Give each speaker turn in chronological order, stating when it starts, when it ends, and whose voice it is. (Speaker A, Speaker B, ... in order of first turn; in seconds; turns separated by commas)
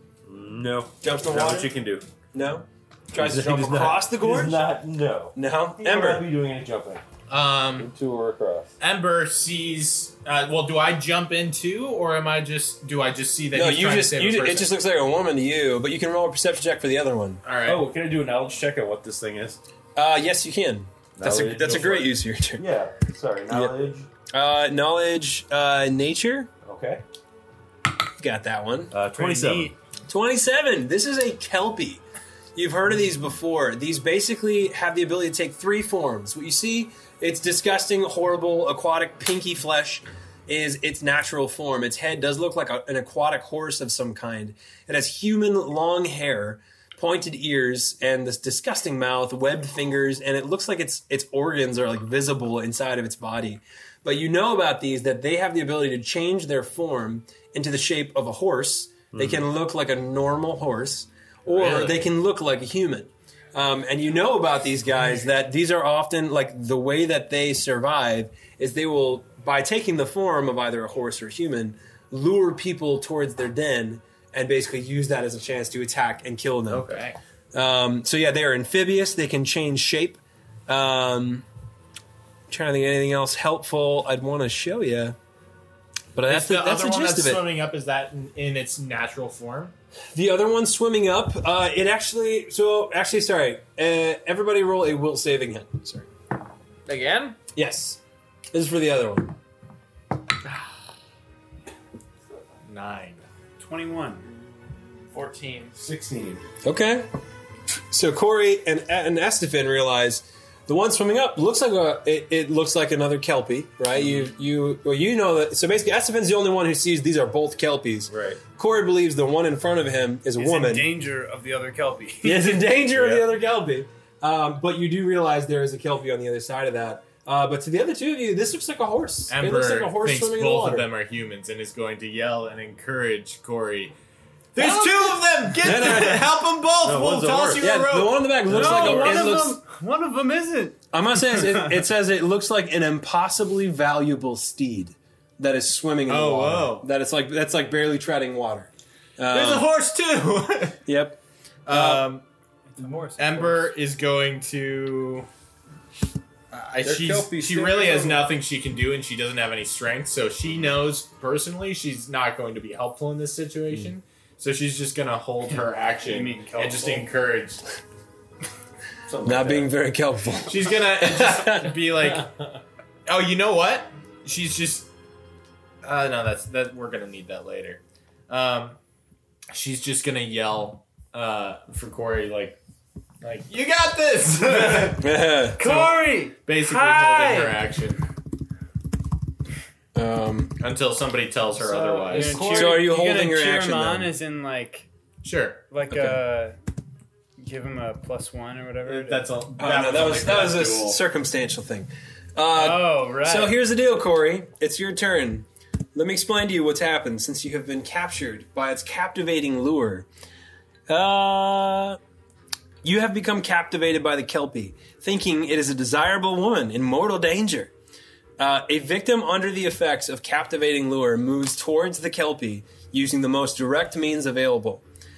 Speaker A: 0.2-2.0, Speaker B: 1.0-1.7, Speaker B: 2.3-4.7, Speaker A: 3.1-7.0, Speaker B: 5.3-6.3, Speaker C: 7.3-7.9, Speaker A: 7.8-8.7, Speaker C: 8.8-14.7, Speaker B: 13.5-17.4, Speaker C: 17.4-17.8, Speaker A: 17.6-19.6, Speaker B: 19.9-22.6, Speaker A: 21.2-24.1, Speaker C: 21.7-21.9, Speaker B: 23.5-23.8, Speaker B: 24.3-26.5, Speaker A: 26.6-27.0, Speaker B: 28.2-28.9, Speaker A: 28.9-29.7, Speaker D: 29.1-29.8, Speaker B: 30.1-32.0, Speaker B: 32.5-76.9, Speaker A: 59.1-59.4, Speaker C: 61.5-62.0, Speaker C: 76.7-77.2, Speaker B: 77.5-81.5, Speaker B: 82.5-85.2, Speaker B: 86.1-87.5, Speaker C: 86.3-89.7, Speaker B: 90.1-96.1, Speaker E: 96.9-97.4, Speaker B: 97.5-98.0, Speaker B: 98.5-99.3, Speaker C: 102.6-103.2, Speaker D: 103.6-104.3, Speaker E: 105.1-105.8, Speaker C: 105.8-106.4, Speaker B: 106.6-107.1, Speaker B: 107.9-120.9, Speaker A: 118.1-118.4, Speaker D: 120.3-122.7, Speaker B: 122.2-130.9, Speaker C: 129.3-133.9, Speaker C: 134.6-139.3, Speaker B: 135.6-136.4, Speaker A: 136.8-137.8, Speaker B: 137.6-139.6, Speaker D: 138.5-141.8, Speaker B: 140.9-149.7, Speaker C: 146.1-146.9, Speaker C: 149.3-150.8, Speaker B: 150.8-152.1, Speaker C: 151.7-152.2, Speaker D: 152.8-153.7, Speaker C: 153.2-155.3, Speaker C: 156.5-167.7, Speaker A: 156.8-158.3, Speaker D: 166.0-167.1, Speaker A: 169.1-169.7, Speaker B: 169.2-171.8, Speaker C: 170.4-172.3, Speaker C: 173.1-174.9, Speaker C: 175.8-178.8, Speaker C: 179.5-182.6, Speaker C: 183.2-185.1, Speaker B: 185.0-185.9, Speaker D: 185.6-187.6, Speaker C: 186.4-188.0, Speaker B: 189.9-190.6, Speaker C: 190.6-192.5, Speaker E: 191.6-192.8, Speaker D: 192.1-194.9, Speaker B: 192.5-194.1, Speaker C: 195.2-195.6, Speaker D: 195.7-196.6, Speaker B: 195.9-196.2, Speaker D: 197.4-199.3, Speaker C: 198.8-201.0, Speaker B: 199.6-210.1, Speaker D: 202.5-203.6, Speaker B: 210.9-212.0, Speaker B: 212.8-217.7, Speaker B: 218.4-224.8